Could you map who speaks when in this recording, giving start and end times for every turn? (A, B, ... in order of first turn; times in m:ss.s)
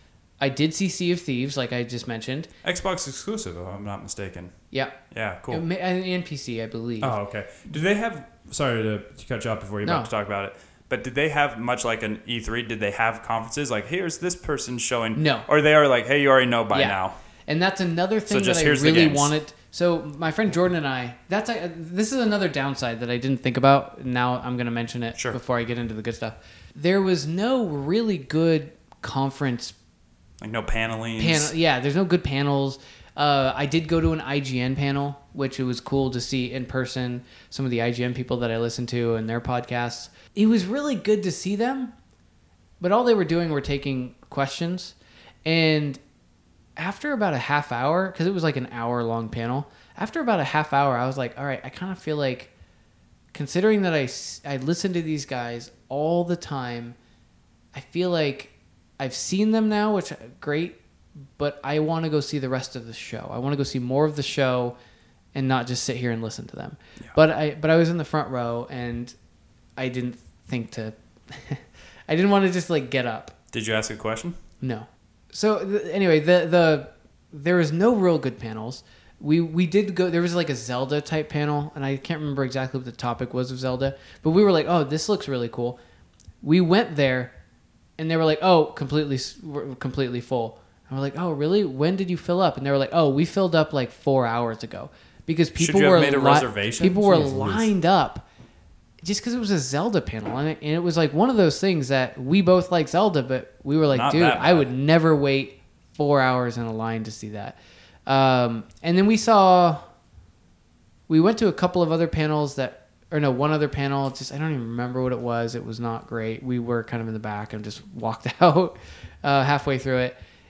0:00.4-0:02.5 A
0:02.6-0:04.5 B
0:04.7-0:07.2 A
0:05.1-0:05.6 B
0:07.0-0:17.2 B
0:09.8-0:10.1 A
0:15.2-0:15.5 A
0:16.7-0:29.8 A
0:18.3-0:19.3 B
0:30.4-0:31.5 B
0:31.2-0:41.9 A
0:42.8-0:46.0 A
0:46.8-0:52.5 A
0:53.3-0:57.0 A
0:57.7-1:04.8 A
1:05.3-1:09.2 A
1:09.8-1:13.3 A
1:13.5-1:14.4 B
1:14.6-1:25.8 A
1:26.4-1:27.3 A
1:28.0-1:38.2 A
1:35.6-1:37.7 B
1:39.0-1:49.8 A
1:43.9-1:44.7 B
1:51.1-2:00.2 A